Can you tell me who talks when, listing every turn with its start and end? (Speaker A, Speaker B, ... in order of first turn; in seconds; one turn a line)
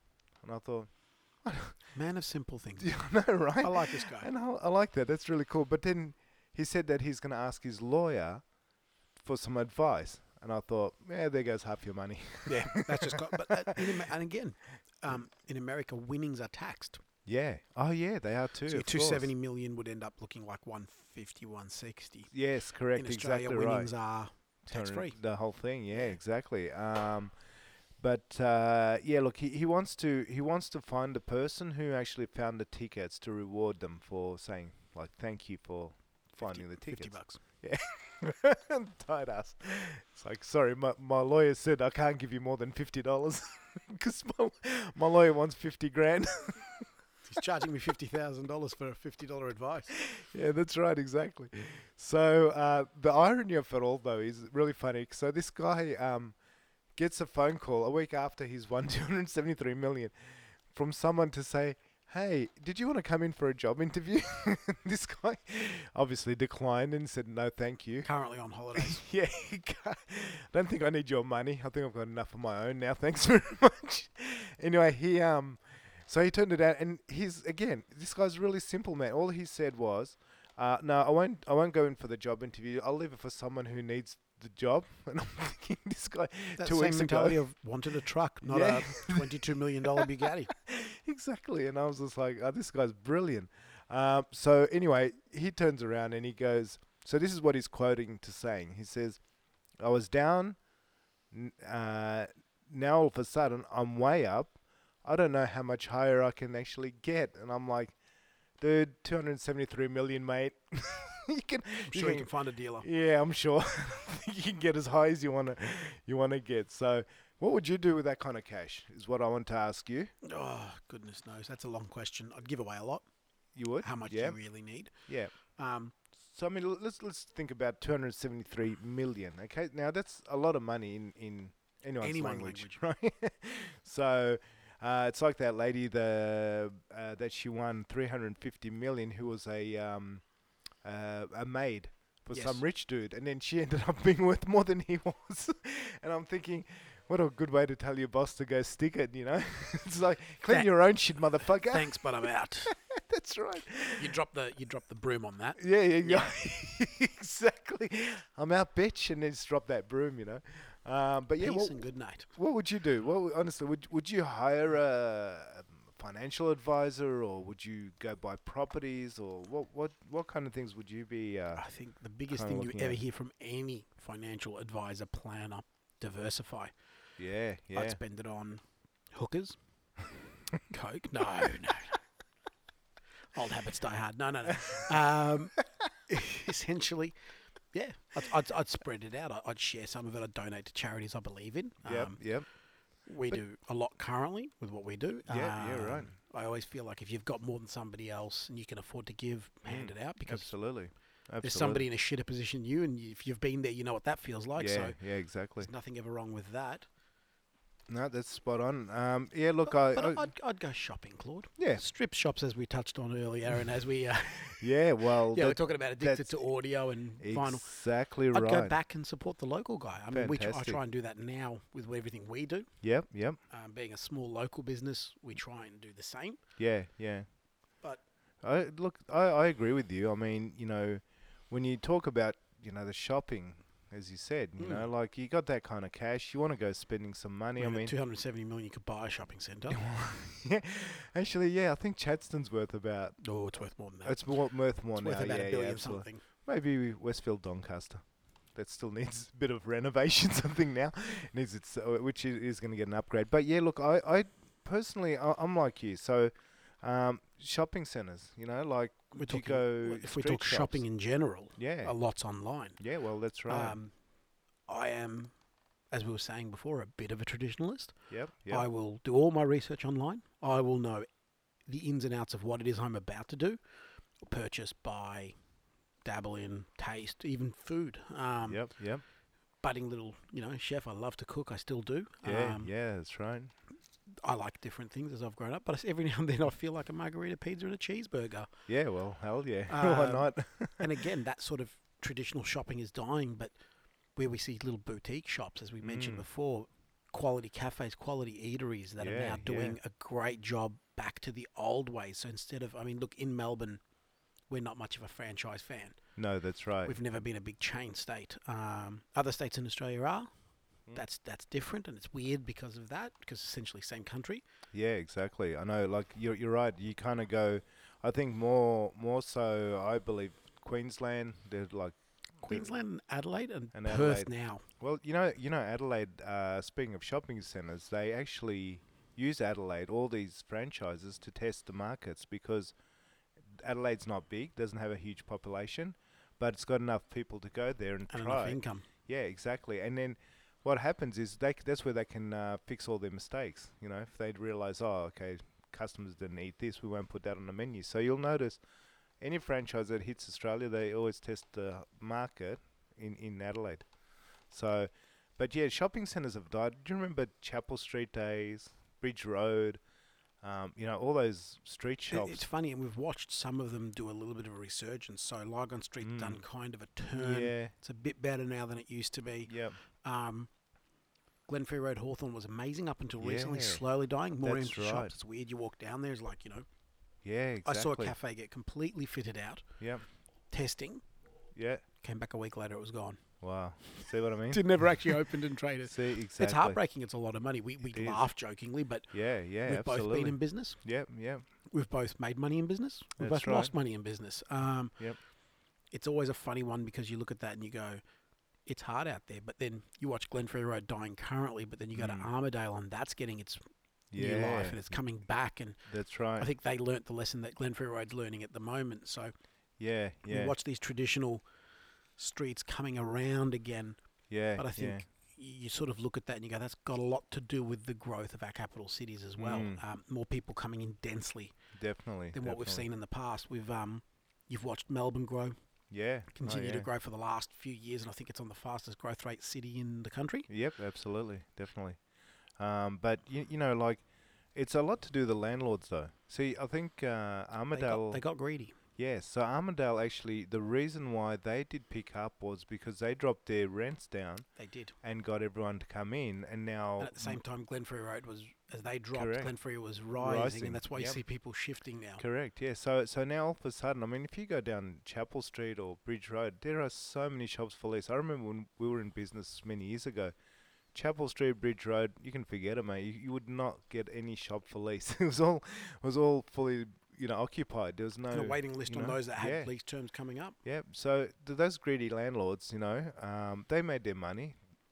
Speaker A: 0.4-1.8
Speaker B: 1.9-4.3
Speaker A: 2.8-8.4
Speaker A: 9.2-13.9
Speaker B: 12.5-17.0
Speaker A: 17.2-19.3
Speaker B: 18.7-22.3
Speaker A: 22.3-23.9
Speaker B: 22.9-25.2
Speaker A: 24.6-27.4
Speaker B: 25.9-26.2
Speaker A: 28.0-46.9
Speaker B: 36.4-37.4
Speaker B: 47.2-49.9
Speaker A: 50.0-56.4
Speaker A: 57.0-60.1
Speaker A: 60.7-68.1
Speaker B: 68.0-69.0
Speaker A: 68.8-87.4
Speaker B: 86.6-90.5
Speaker A: 88.4-99.2
Speaker A: 99.8-100.6
Speaker A: 101.3-108.0
Speaker A: 108.6-112.3
Speaker B: 111.9-112.9
Speaker A: 112.8-120.1
Speaker B: 120.2-123.0
Speaker A: 123.5-124.4
Speaker B: 123.8-124.9
Speaker A: 125.1-125.3
Speaker B: 125.5-126.0
Speaker A: 126.2-140.2
Speaker B: 132.0-132.8
Speaker A: 140.8-154.2
Speaker B: 142.3-142.6
Speaker B: 150.5-150.8
Speaker B: 151.4-152.7
Speaker B: 154.0-156.3
Speaker A: 155.6-171.7
Speaker B: 161.4-162.3
Speaker B: 171.6-176.7
Speaker A: 172.3-173.0
Speaker A: 177.2-178.0
Speaker B: 177.7-179.6
Speaker B: 180.7-182.0
Speaker B: 183.3-187.2
Speaker B: 187.7-192.3
Speaker A: 191.8-192.5
Speaker B: 193.1-200.8
Speaker A: 195.3-196.1
Speaker A: 199.6-201.9
Speaker B: 201.4-206.9
Speaker A: 204.6-205.7
Speaker A: 207.9-210.3
Speaker B: 209.7-222.8
Speaker A: 211.6-211.8
Speaker A: 214.6-216.3
Speaker A: 217.2-218.8
Speaker A: 220.1-220.8
Speaker A: 222.8-223.4
Speaker B: 223.5-226.4
Speaker A: 226.6-227.3
Speaker A: 228.4-237.9
Speaker B: 234.6-234.9
Speaker B: 237.6-239.8
Speaker A: 239.7-243.2
Speaker B: 243.2-244.3
Speaker A: 244.0-260.8
Speaker B: 244.9-246.2
Speaker B: 259.1-262.8
Speaker A: 261.6-261.9
Speaker A: 262.8-263.8
Speaker B: 263.5-263.9
Speaker B: 264.7-265.3
Speaker B: 265.9-267.9
Speaker A: 268.1-268.7
Speaker B: 268.5-271.1
Speaker B: 271.6-273.6
Speaker B: 274.2-275.4
Speaker B: 276.0-278.7
Speaker A: 278.4-279.0
Speaker B: 279.6-282.7
Speaker A: 282.2-283.5
Speaker B: 284.1-288.5
Speaker A: 288.7-290.9
Speaker B: 289.7-293.6
Speaker B: 294.1-303.8
Speaker A: 295.8-296.2
Speaker A: 299.0-299.8
Speaker B: 304.5-306.0
Speaker A: 306.2-306.9
Speaker B: 306.9-310.3
Speaker B: 310.9-314.4
Speaker A: 314.7-322.7
Speaker B: 322.4-324.6
Speaker A: 323.7-332.8
Speaker A: 333.5-348.6
Speaker B: 338.1-338.9
Speaker A: 349.2-353.9
Speaker A: 354.5-359.8
Speaker A: 360.4-362.4
Speaker B: 362.1-370.5
Speaker A: 366.0-366.4
Speaker A: 367.2-367.7
Speaker A: 369.4-369.8
Speaker B: 371.5-376.7
Speaker A: 373.2-373.8
Speaker A: 374.4-375.1
Speaker A: 377.2-378.1
Speaker B: 377.6-379.7
Speaker A: 379.8-380.1
Speaker B: 380.5-381.0
Speaker A: 381.6-381.8
Speaker B: 382.0-383.2
Speaker A: 383.4-384.9
Speaker B: 384.5-389.1
Speaker A: 385.9-386.8
Speaker A: 387.9-388.2
Speaker A: 389.1-391.4
Speaker B: 389.6-390.8
Speaker B: 391.6-395.0
Speaker A: 393.2-393.7
Speaker B: 395.9-398.0
Speaker B: 398.7-403.6
Speaker A: 401.9-402.3
Speaker A: 404.1-405.0
Speaker B: 404.1-405.8
Speaker A: 405.9-406.5
Speaker B: 406.4-409.3
Speaker A: 409.8-410.5
Speaker B: 410.3-411.4
Speaker B: 412.2-414.0
Speaker A: 414.3-415.1
Speaker B: 414.6-421.5
Speaker A: 419.4-419.8
Speaker A: 421.8-422.9
Speaker B: 422.3-425.6
Speaker A: 425.9-426.9
Speaker B: 426.4-430.5
Speaker A: 430.5-432.0
Speaker A: 432.6-438.2
Speaker B: 437.7-438.8
Speaker A: 439.0-444.5
Speaker B: 444.6-444.9
Speaker A: 445.0-447.4
Speaker B: 447.0-452.2
Speaker A: 449.1-449.5
Speaker A: 450.2-451.2
Speaker A: 452.2-460.3
Speaker A: 460.9-469.7
Speaker B: 468.3-470.6
Speaker A: 470.6-474.6